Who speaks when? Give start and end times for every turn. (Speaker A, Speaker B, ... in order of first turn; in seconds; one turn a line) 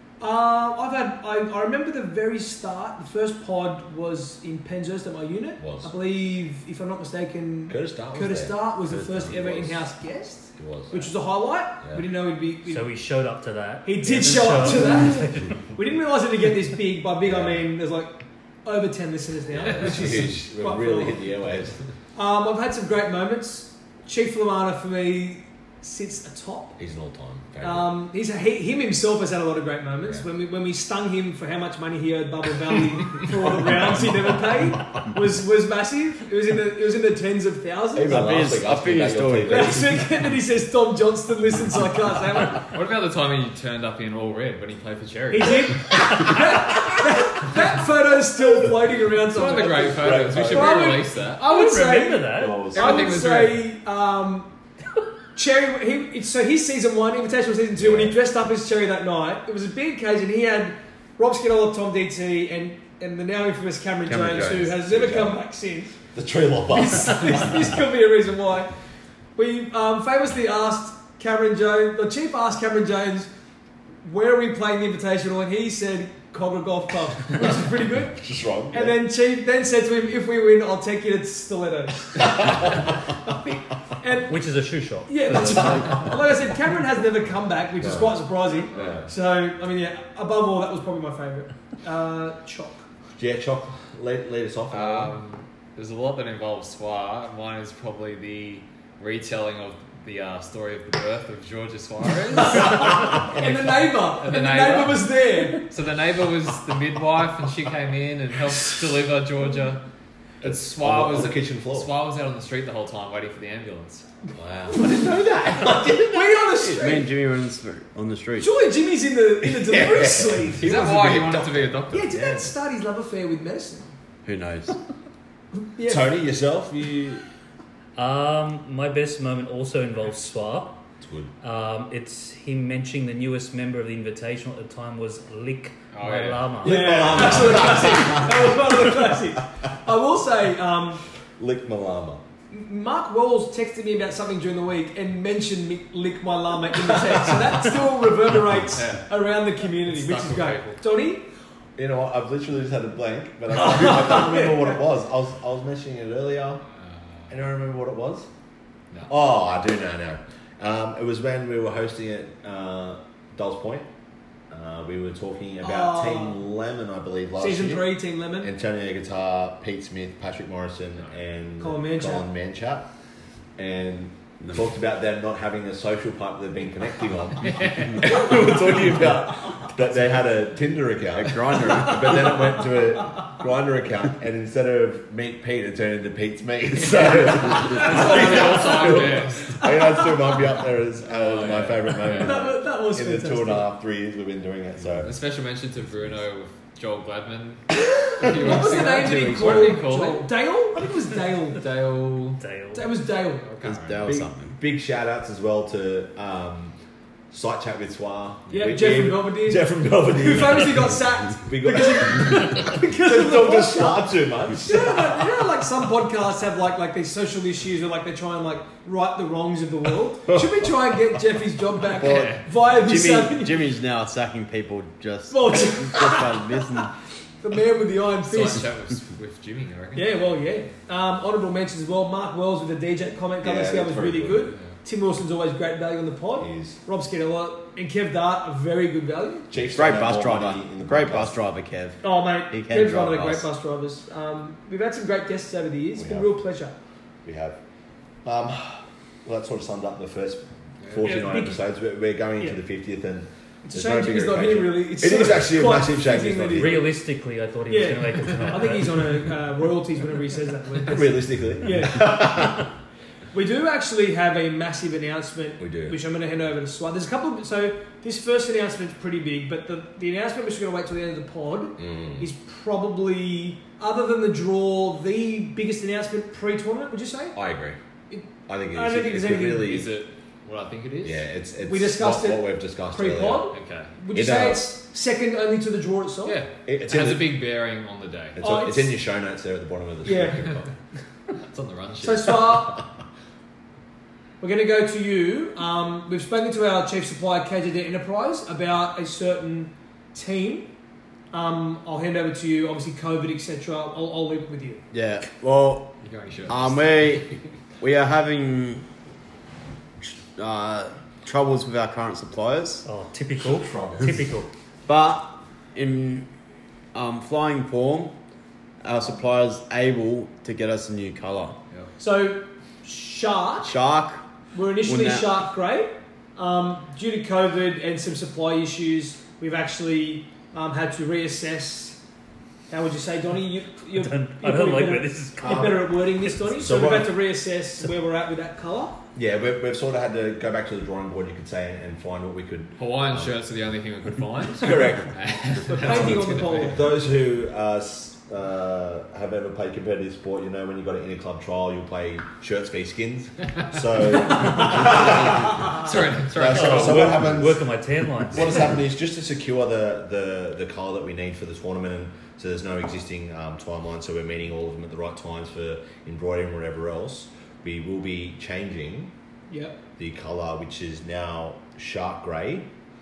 Speaker A: 0.2-12.9
Speaker B: 5.6-5.9
Speaker B: 7.7-8.6
Speaker C: 8.9-9.3
Speaker B: 9.2-9.9
Speaker B: 10.6-11.1
Speaker D: 12.7-15.6
Speaker A: 13.8-21.3
Speaker B: 17.2-17.8
Speaker B: 19.5-21.8
Speaker A: 22.1-26.8
Speaker B: 26.8-27.9
Speaker A: 27.6-38.5
Speaker B: 33.5-34.0
Speaker C: 38.0-39.9
Speaker B: 38.0-40.0
Speaker A: 39.5-42.6
Speaker E: 42.6-45.9
Speaker A: 45.3-54.5
Speaker E: 49.3-51.4
Speaker B: 49.4-50.9
Speaker D: 51.4-52.7
Speaker B: 52.4-53.2
Speaker E: 52.7-53.6
Speaker A: 55.4-66.0
Speaker B: 57.8-58.2
Speaker C: 64.1-64.8
Speaker B: 64.9-65.4
Speaker B: 66.1-67.8
Speaker A: 66.7-68.7
Speaker A: 69.3-73.3
Speaker A: 74.0-78.2
Speaker B: 78.1-79.0
Speaker A: 78.7-82.7
Speaker B: 82.2-82.7
Speaker A: 83.3-84.3
Speaker D: 84.3-86.0
Speaker A: 85.1-92.9
Speaker B: 87.8-88.2
Speaker B: 88.7-89.1
Speaker B: 93.2-95.2
Speaker E: 94.7-109.8
Speaker A: 102.5-105.7
Speaker B: 110.4-111.9
Speaker E: 110.4-114.0
Speaker B: 114.4-116.8
Speaker A: 114.7-117.1
Speaker C: 116.7-118.5
Speaker A: 118.4-120.7
Speaker B: 119.4-121.8
Speaker E: 120.6-122.5
Speaker A: 121.9-123.9
Speaker C: 124.2-124.8
Speaker A: 125.7-126.1
Speaker B: 125.8-127.2
Speaker D: 128.0-130.8
Speaker B: 131.0-131.3
Speaker D: 131.4-137.2
Speaker E: 135.9-136.6
Speaker B: 136.6-138.6
Speaker A: 136.6-141.0
Speaker B: 141.4-142.2
Speaker A: 142.5-151.3
Speaker E: 148.7-149.1
Speaker E: 149.9-150.8
Speaker B: 151.8-156.6
Speaker A: 153.5-154.8
Speaker B: 157.3-158.3
Speaker B: 159.1-163.9
Speaker B: 164.5-172.9
Speaker A: 165.6-166.4
Speaker A: 167.4-168.5
Speaker A: 171.6-172.3
Speaker B: 173.6-195.2
Speaker E: 177.4-178.3
Speaker C: 181.1-182.3
Speaker E: 186.9-189.6
Speaker A: 187.8-190.1
Speaker E: 191.1-192.4
Speaker A: 192.0-193.7
Speaker E: 195.0-200.3
Speaker A: 198.2-201.6
Speaker C: 198.8-199.6
Speaker E: 201.5-202.4
Speaker D: 202.4-202.9
Speaker A: 202.8-203.6
Speaker E: 203.4-204.2
Speaker C: 203.6-204.6
Speaker B: 204.1-206.8
Speaker B: 207.3-215.3
Speaker E: 208.5-208.8
Speaker A: 208.5-223.7
Speaker C: 222.0-226.9
Speaker E: 222.0-222.4
Speaker A: 225.3-226.8
Speaker A: 227.4-228.7
Speaker E: 228.3-230.2
Speaker A: 229.9-239.5
Speaker B: 233.4-234.5
Speaker B: 236.4-236.8
Speaker B: 239.5-241.4
Speaker C: 239.8-243.5
Speaker A: 242.0-246.8
Speaker B: 245.9-246.3
Speaker B: 247.2-247.6
Speaker B: 248.2-256.9
Speaker E: 250.8-251.2
Speaker A: 251.0-251.6
Speaker A: 253.7-257.0
Speaker D: 256.5-259.1
Speaker A: 257.7-262.3
Speaker B: 260.9-262.7
Speaker A: 263.3-277.4
Speaker B: 265.6-266.0
Speaker B: 271.8-272.3
Speaker B: 277.4-277.8
Speaker A: 278.1-279.8
Speaker B: 278.5-279.9
Speaker E: 279.6-281.2
Speaker B: 281.0-283.5
Speaker A: 281.6-286.4
Speaker E: 283.5-283.9
Speaker B: 284.1-284.7
Speaker E: 286.2-288.4
Speaker B: 286.7-287.4
Speaker B: 288.4-290.7
Speaker A: 288.4-288.9
Speaker A: 290.1-290.5
Speaker E: 291.4-292.6
Speaker A: 292.0-292.8
Speaker A: 294.4-300.7
Speaker A: 301.3-304.8
Speaker C: 304.9-305.9
Speaker E: 306.0-307.3
Speaker C: 306.5-308.9
Speaker C: 310.4-312.8
Speaker D: 312.9-314.5
Speaker B: 313.4-314.2
Speaker C: 314.9-316.3
Speaker C: 316.9-318.1
Speaker C: 318.8-321.6
Speaker A: 322.0-323.8
Speaker C: 323.6-324.3
Speaker A: 324.5-332.0
Speaker C: 324.8-325.4
Speaker A: 332.7-339.0
Speaker D: 333.9-336.6
Speaker B: 335.4-335.9
Speaker B: 336.6-337.2
Speaker B: 339.1-343.3
Speaker E: 342.8-346.8
Speaker B: 344.6-345.1
Speaker A: 345.7-346.9
Speaker B: 345.8-357.6
Speaker E: 355.6-357.2
Speaker D: 356.5-358.6
Speaker B: 358.3-369.1
Speaker A: 369.5-369.8
Speaker B: 370.0-372.7